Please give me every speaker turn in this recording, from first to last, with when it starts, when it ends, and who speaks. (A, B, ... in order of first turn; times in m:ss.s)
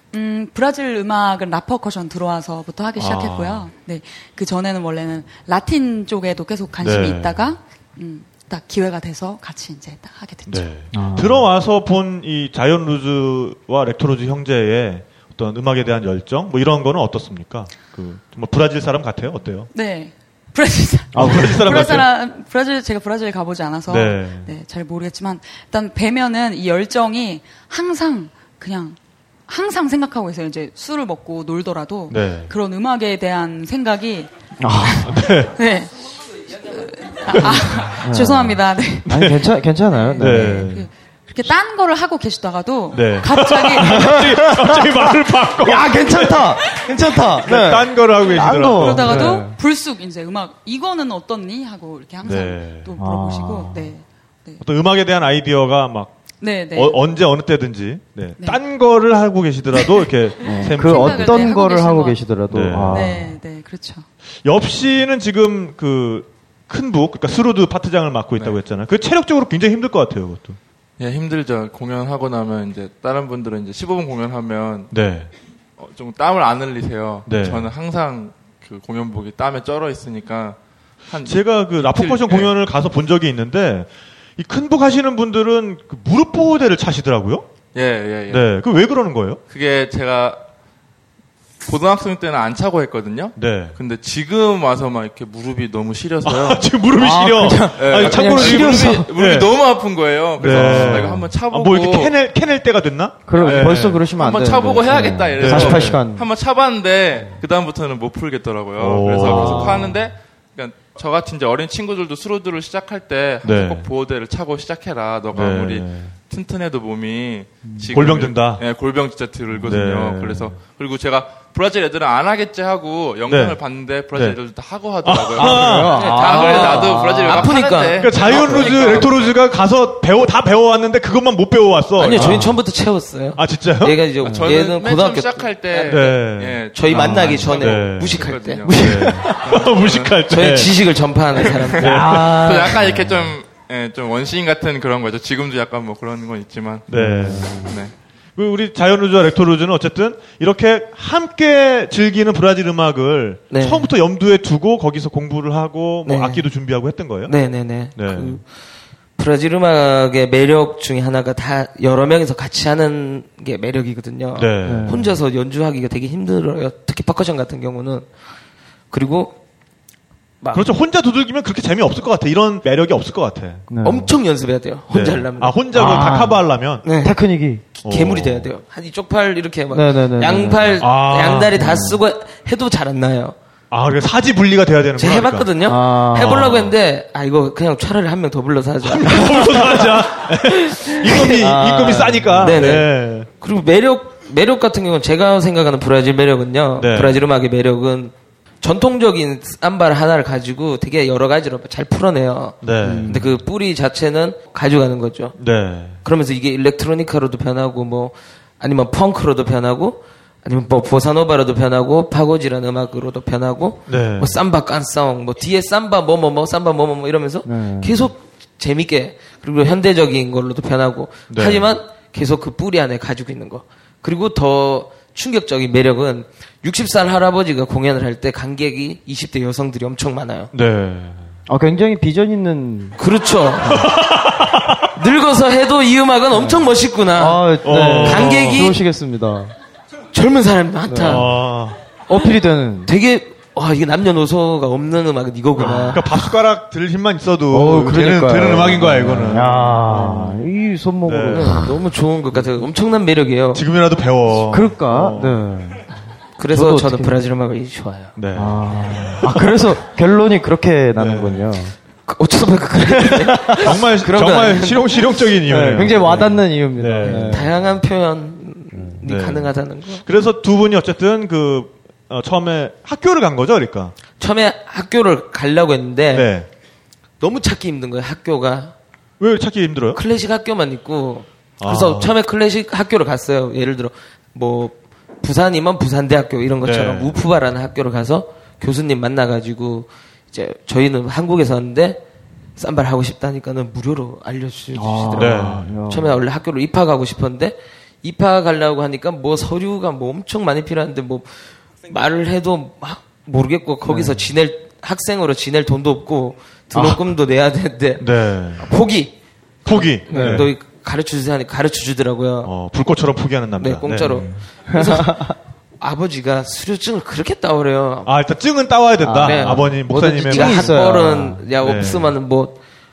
0:00.1-0:10.8 A
0:03.0-0:03.7 B
0:06.8-0:07.5 B
0:10.5-0:19.7 B
0:10.9-0:11.5 C
0:19.7-0:34.3 A
0:21.1-0:21.9 C
0:21.1-0:22.1 B
0:23.9-0:24.5 B
0:32.1-0:32.5 B
0:34.6-0:35.3 C
0:34.8-0:39.2 A
0:35.0-0:35.5 B
0:37.3-0:38.5 B
0:38.0-0:38.6 C
0:39.1-0:39.4 B
0:39.1-0:40.7 C
0:39.9-0:44.3 A
0:40.2-0:40.9 B
0:42.9-0:46.9 B
0:43.8-0:49.6 C
0:47.4-0:49.4 B
0:48.7-0:54.6 A
0:52.2-0:53.0 B
0:53.0-0:53.9 C
0:54.6-0:56.2 B
0:56.4-0:57.0 A
0:56.7-1:01.4 B
0:59.8-1:02.2 A
1:00.4-1:03.4 C
1:02.5-1:03.2 B
1:02.8-1:04.0 A
1:04.4-1:10.6 B
1:11.0-1:14.9 D
1:14.9-1:15.3 B
1:15.8-1:22.5 D
1:17.3-1:17.7 B
1:21.2-1:27.5 B
1:27.7-1:28.5 D
1:28.3-1:29.4 B
1:29.5-1:30.4 D
1:31.6-1:36.8 D
1:33.4-1:33.8 B
1:36.2-1:44.1 B
1:36.9-1:39.1 C
1:37.8-1:42.2 D
1:40.4-1:41.3 C
1:43.3-1:46.3 C
1:43.3-2:09.4 D
1:45.4-1:46.0 B
1:48.8-1:50.0 B
1:49.1-1:50.0 C
1:53.4-1:53.9 B
1:55.3-1:56.1 B
1:57.6-1:57.9 C
1:57.9-1:58.6 B
1:59.5-2:00.6 B
2:03.3-2:04.4 B
2:05.0-2:06.6 B
2:05.2-2:07.6 C
2:06.0-2:09.0 E
2:08.0-2:12.6 B
2:12.0-2:16.1 E
2:12.1-2:12.6 C
2:13.4-2:14.0 B
2:14.2-2:20.2 D
2:15.8-2:20.8 B
2:16.7-2:18.7 E
2:16.9-2:17.6 C
2:18.6-2:19.4 C
2:20.3-2:22.1 E
2:21.4-2:26.9 D
2:21.8-2:23.4 C
2:21.8-2:22.6 B
2:26.9-2:27.7 B
2:26.9-2:27.8 C
2:27.5-2:27.9 D
2:28.4-2:37.3 B
2:33.5-2:33.9 E
2:36.0-2:36.5 E
2:37.3-2:38.4 E
2:38.0-2:38.4 B
2:39.2-2:48.1 E
2:44.4-2:45.0 B
2:44.6-2:45.2 C
2:48.9-2:49.4 E
2:50.4-2:50.7 E
2:50.5-2:53.7 B
2:53.7-2:54.1 C
2:53.8-2:56.2 E
2:54.9-2:56.8 B
2:55.7-2:57.7 C
2:56.8-2:57.2 E
2:57.7-3:03.4 E
2:57.8-2:58.5 B
2:59.7-3:00.8 C
3:00.8-3:01.8 B
3:01.6-3:02.0 C
3:03.7-3:05.5 B
3:05.0-3:11.5 E
3:05.6-3:06.6 C
3:06.2-3:06.7 B
3:08.8-3:13.3 B
3:11.1-3:12.7 C
3:12.4-3:25.4 E
3:16.8-3:17.2 B
3:22.6-3:23.3 B
3:22.8-3:23.3 C
3:25.4-3:26.0 B
3:26.0-3:50.5 E
3:33.9-3:34.4 B
3:37.4-3:38.1 C
3:41.3-3:41.8 B
3:50.5-3:51.3 B
3:51.5-3:53.0 C
3:53.0-3:53.9 E
3:53.7-3:54.8 B
3:55.0-3:58.8 E
3:56.3-3:59.5 C
3:57.6-3:58.7 B
4:00.1-4:01.3 E
4:00.9-4:01.3 C
4:01.1-4:01.8 B
4:02.1-4:02.9 C
4:02.9-4:06.1 E
4:05.6-4:06.2 C
4:05.6-4:10.5 B
4:07.5-4:11.6 C
4:11.0-4:11.6 B
4:11.3-4:13.6 E
4:13.5-4:15.4 B
4:14.5-4:15.8 C
4:16.4-4:18.1 E
4:16.5-4:17.2 C
4:18.2-4:19.4 B
4:18.4-4:21.7 C
4:21.0-4:21.5 B
4:22.1-4:25.0 E
4:22.9-4:23.7 C
4:23.6-4:27.6 B
4:25.5-4:27.6 C
4:27.0-4:30.0 E
4:28.7-4:29.0 C
4:29.0-4:34.0 B
4:34.2-4:36.3 E
4:36.1-4:36.5 B
4:37.2-4:38.7 E
4:39.2-4:40.0 B
4:40.0-4:52.0 E
4:41.6-4:42.1 B
4:46.6-4:47.2 B
4:52.6-5:08.1 E
4:54.8-4:56.2 C
4:55.2-4:55.7 B
5:03.9-5:04.2 C
5:06.7-5:07.0 C
5:08.0-5:08.6 B
5:08.6-5:09.1 E
5:09.6-5:10.5 B
5:09.7-5:12.5 E
5:10.1-5:10.5 C
5:12.4-5:14.4 B
5:13.6-5:18.1 E
5:14.7-5:15.4 C
5:18.1-5:20.9 B
5:19.0-5:21.5 C
5:19.1-5:22.6 E
5:21.6-5:22.1 B